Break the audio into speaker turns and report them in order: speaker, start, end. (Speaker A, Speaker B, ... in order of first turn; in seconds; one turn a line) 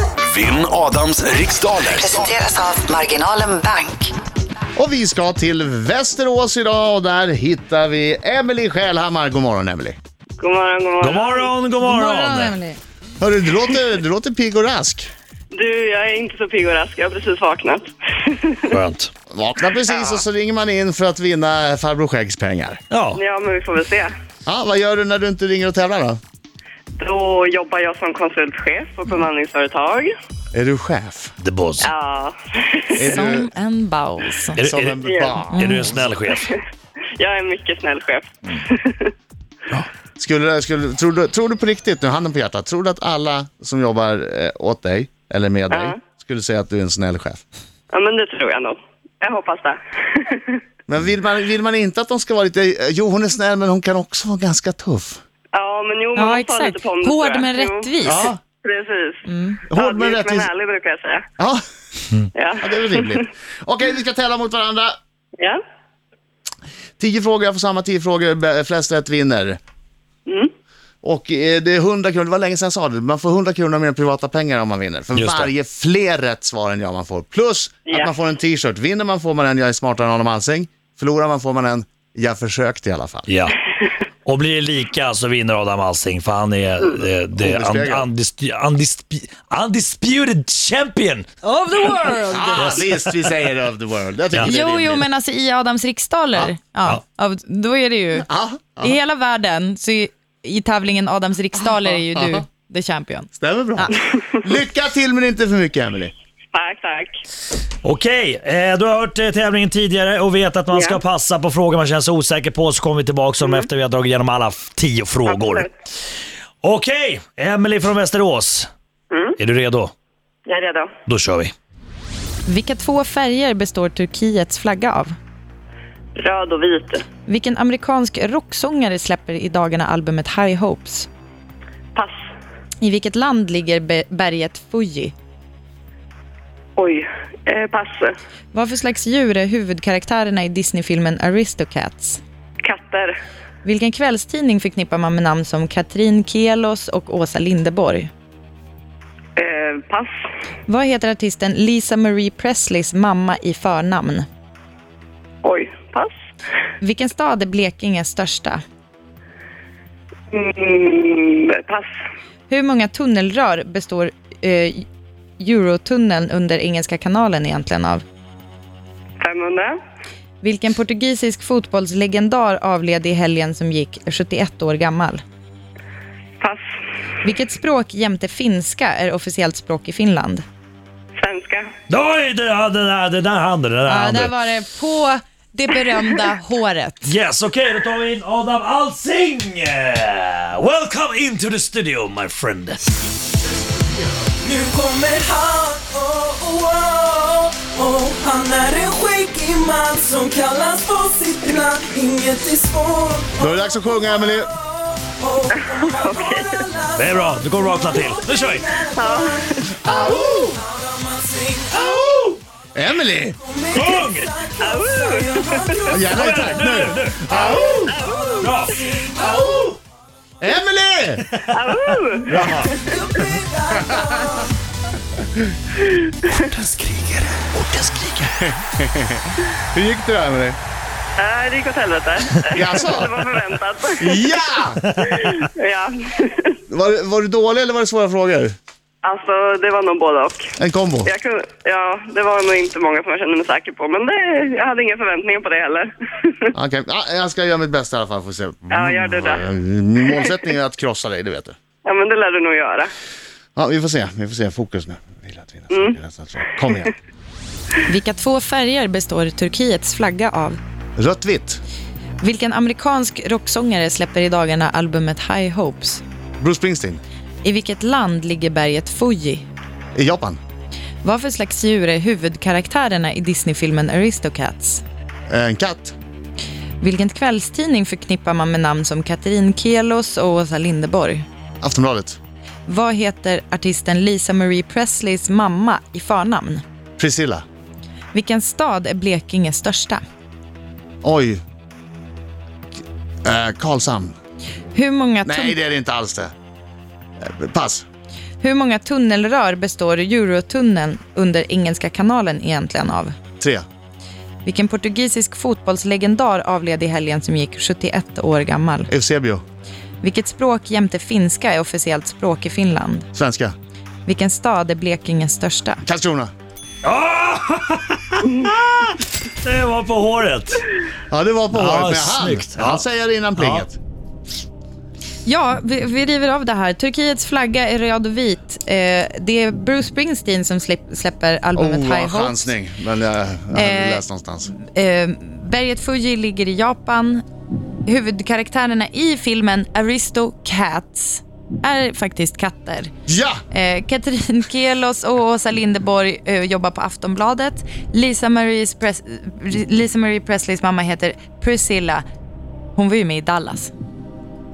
Speaker A: 0.2-2.3
Speaker B: 1.9-4.1
Speaker C: 4.8-10.0
Speaker D: 10.4-11.5
Speaker E: 11.0-12.6
Speaker F: 11.8-12.8
Speaker C: 13.2-15.1
Speaker D: 15.5-18.7
Speaker E: 18.7-19.1
Speaker C: 19.3-22.8
Speaker D: 19.9-20.2
Speaker E: 22.9-23.2
Speaker D: 23.1-24.1
Speaker C: 24.5-26.2
Speaker D: 27.0-30.1
Speaker C: 30.5-31.3
Speaker E: 31.4-31.9
Speaker D: 31.8-33.0
Speaker C: 33.0-33.5
Speaker F: 33.0-34.6
Speaker E: 34.6-36.5
Speaker C: 34.6-36.0
Speaker D: 35.0-35.4
Speaker F: 35.5-35.9
Speaker D: 36.3-36.6
Speaker D: 37.2-39.1
Speaker C: 39.7-47.4
Speaker D: 45.7-46.0
Speaker D: 47.9-50.6
Speaker C: 50.9-55.2
Speaker D: 55.5-61.2
Speaker F: 56.2-58.3
Speaker C: 58.0-58.4
Speaker F: 59.3-59.6
Speaker C: 59.7-60.5
Speaker D: 62.3-63.2
Speaker C: 62.6-65.0
Speaker C: 67.0-69.6
Speaker C: 71.0-83.3
Speaker E: 75.1-75.5
Speaker D: 77.9-78.1
Speaker E: 83.3-83.6
Speaker E: 84.2-91.4
Speaker C: 87.4-88.1
Speaker F: 91.5-92.5
Speaker C: 92.3-95.1
Speaker E: 92.5-93.3
Speaker F: 94.4-98.3
Speaker C: 98.2-99.0
Speaker F: 98.8-103.9
Speaker C: 101.6-102.5
Speaker C: 103.4-106.1
Speaker D: 106.5-107.2
Speaker E: 107.8-115.7
Speaker D: 110.7-111.0
Speaker D: 115.3-115.7
Speaker E: 116.6-118.7
Speaker D: 119.1-119.4
Speaker E: 119.4-119.9
Speaker D: 120.5-120.9
Speaker E: 121.1-121.5
Speaker F: 122.5-125.1
Speaker D: 126.2-127.0
Speaker F: 127.3-131.1
Speaker F: 132.8-135.1
Speaker D: 136.8-138.1
Speaker F: 138.5-142.2
Speaker D: 142.6-143.2
Speaker F: 143.6-148.1
Speaker D: 149.4-150.1
Speaker F: 150.7-154.3
Speaker D: 155.4-156.1
Speaker F: 156.8-158.6
Speaker D: 160.3-161.9
Speaker F: 162.5-164.9
Speaker F: 165.4-168.0
Speaker D: 169.2-169.8
Speaker F: 170.4-175.2
Speaker F: 177.2-180.4
Speaker D: 181.2-181.7
Speaker E: 181.9-184.3
Speaker F: 183.9-187.1
Speaker E: 187.1-192.9
Speaker G: 194.2-212.4
Speaker C: 203.4-204.5
Speaker D: 205.6-206.6
Speaker E: 207.0-208.7
Speaker D: 208.9-209.8
Speaker C: 209.8-210.6
Speaker E: 211.8-212.3
Speaker C: 212.8-213.4
Speaker G: 213.4-216.8
Speaker E: 213.7-214.4
Speaker D: 214.6-216.1
Speaker C: 215.9-217.9
Speaker E: 216.1-219.7
Speaker G: 217.3-219.8
Speaker D: 217.9-218.4
Speaker C: 220.4-221.3
Speaker D: 221.5-222.7
Speaker C: 222.3-222.7
Speaker E: 222.3-222.7
Speaker G: 222.7-224.5
Speaker D: 225.8-226.1
Speaker E: 226.3-228.5
Speaker C: 228.4-230.6
Speaker D: 231.2-234.2
Speaker C: 232.6-233.2
Speaker C: 234.0-234.8
Speaker E: 234.9-235.2
Speaker D: 235.1-236.6
Speaker C: 236.7-238.6
Speaker D: 239.0-240.5
Speaker C: 240.6-241.1
Speaker D: 241.1-246.5
Speaker C: 246.5-251.6
Speaker D: 248.7-249.4
Speaker D: 251.8-252.9
Speaker C: 253.6-256.9
Speaker D: 255.7-256.0
Speaker F: 257.9-260.6
Speaker C: 261.0-261.6
Speaker F: 262.2-266.0
Speaker C: 266.4-267.0
Speaker F: 267.4-269.5
Speaker C: 269.9-270.4
Speaker F: 271.0-274.8
Speaker C: 275.3-275.9
Speaker F: 276.8-281.2
Speaker C: 281.6-282.2
Speaker F: 282.7-286.6
Speaker C: 287.0-287.4
Speaker F: 288.1-290.0
Speaker C: 291.0-291.4
Speaker C: 293.2-294.1
Speaker F: 294.7-295.6
Speaker C: 295.2-296.3
Speaker C: 297.2-297.9
Speaker F: 298.4-303.1
Speaker F: 304.4-308.9
Speaker C: 308.9-309.4
Speaker F: 310.0-313.1
Speaker C: 313.1-313.6
Speaker F: 314.1-315.8
Speaker C: 315.8-316.3
Speaker E: 316.8-318.9
Speaker E: 319.4-320.7
Speaker C: 321.1-323.8
Speaker E: 321.5-322.8
Speaker E: 323.4-323.7
Speaker F: 325.2-332.6
Speaker C: 331.6-334.5
Speaker F: 333.6-334.0
Speaker F: 334.5-337.2
Speaker F: 337.9-342.9
Speaker C: 343.1-343.4
Speaker F: 343.5-352.0
Speaker F: 352.8-353.7